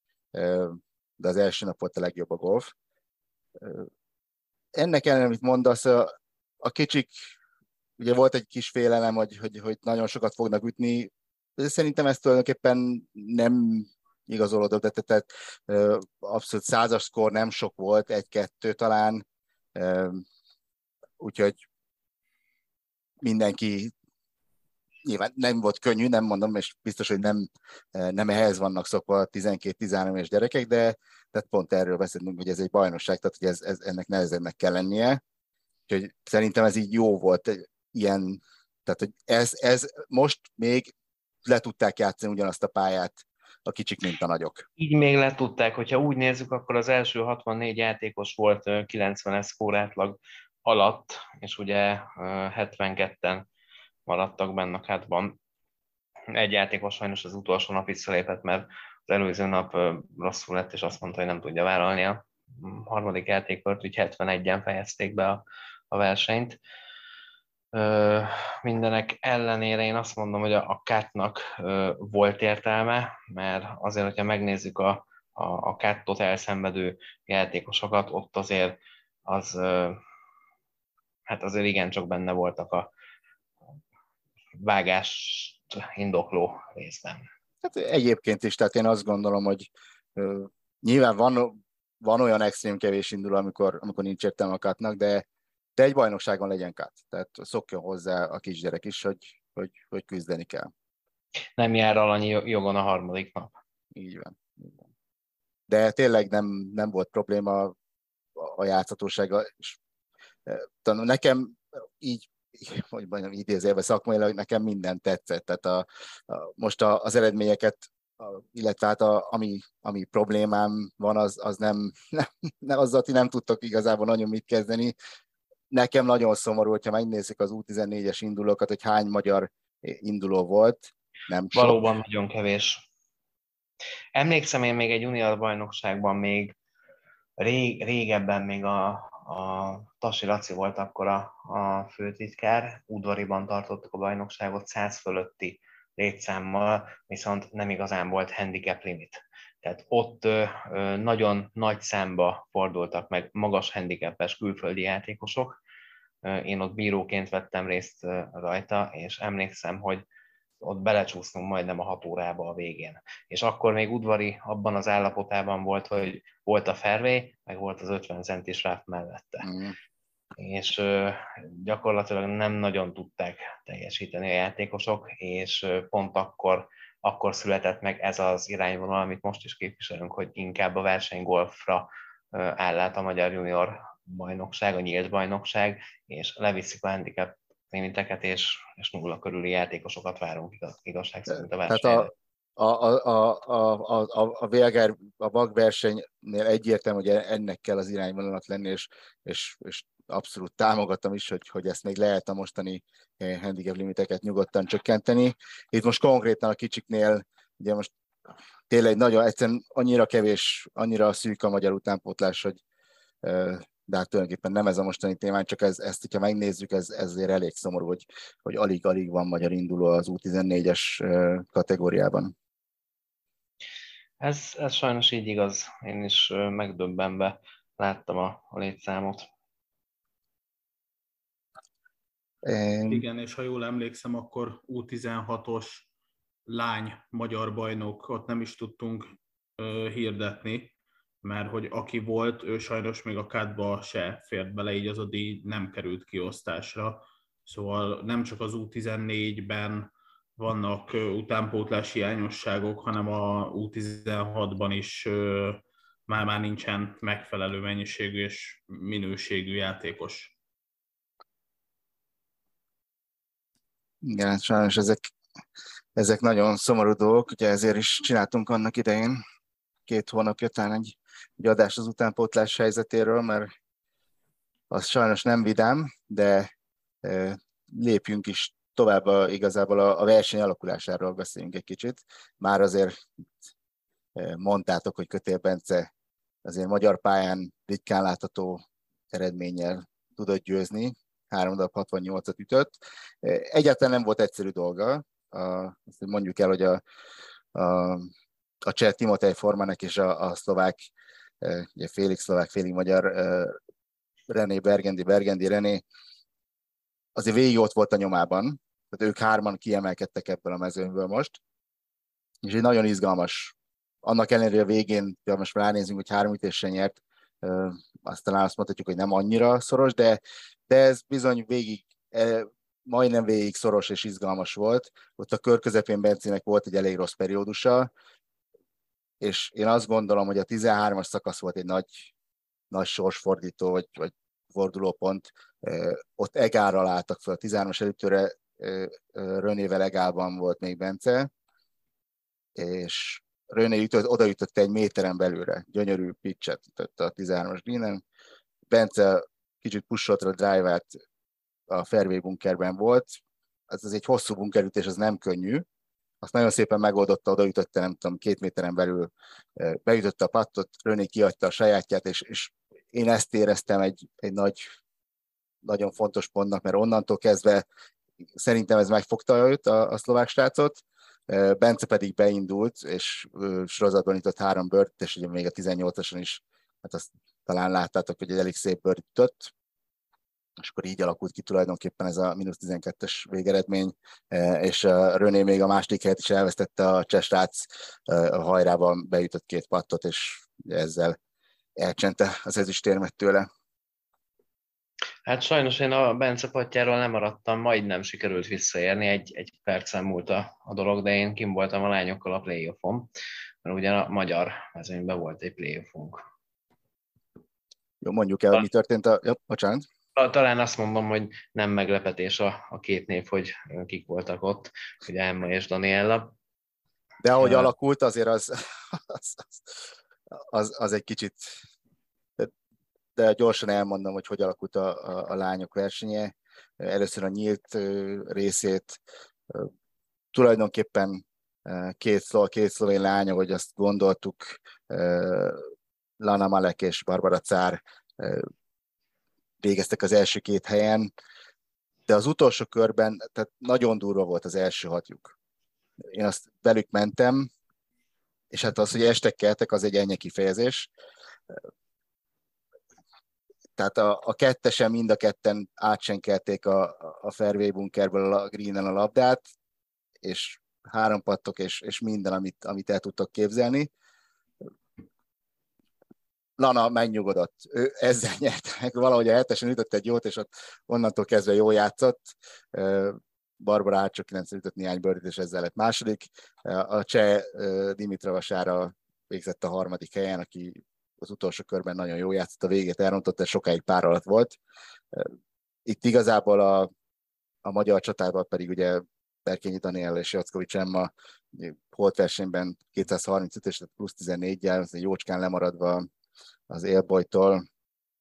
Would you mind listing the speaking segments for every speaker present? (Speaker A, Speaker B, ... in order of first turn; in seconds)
Speaker A: 0.3-2.7, 3.6-3.9, 4.8-7.1, 8.0-19.2, 19.8-20.2, 21.2-21.6, 23.2-23.9, 25.0-35.2, 35.9-40.9, 41.5-44.7, 87.6-100.7, 103.9-104.7, 105.7-107.8, 108.4-109.8, 110.5-125.0, 125.7-131.8, 169.4-169.8, 191.3-207.9, 208.7-212.6, 213.2-222.3, 232.4-233.1, 264.0-265.1, 266.0-269.2, 269.9-273.5, 274.7-276.5, 277.0-283.0, 284.2-285.9, 286.4-296.8, 297.6-298.1, 298.6-300.9, 301.4-303.6, 304.3-305.8, 307.2-311.4, 312.4-327.9, 329.2-332.1, 332.7-341.3, 342.6-348.0, 348.7-351.0, 351.7-355.6, 356.2-364.7, 365.6-367.6, 368.4-379.5, 380.6-391.2, 391.8-393.5, 408.0-409.9, 417.2-421.6, 423.2-429.7, 430.3-435.7, 436.2-438.5, 439.6-441.1, 442.1-445.3, 446.1-447.5, 448.5-450.9, 453.8-459.5, 460.2-463.9, 466.6-484.6, 485.9-486.9, 487.6-496.1, 496.7-497.6
Speaker B: 44.8-53.5, 54.1-55.4, 56.3-66.6, 67.7-80.0, 81.3-82.9, 84.6-87.3, 101.6-103.5, 131.5-132.8, 134.2-136.6, 137.4-155.6, 156.2-160.1, 160.6-169.5, 170.4-192.1, 224.2-229.3, 395.3-403.1, 403.6-406.2, 410.2-416.3, 417.4-417.7
Speaker C: 232.9-235.9, 236.5-260.3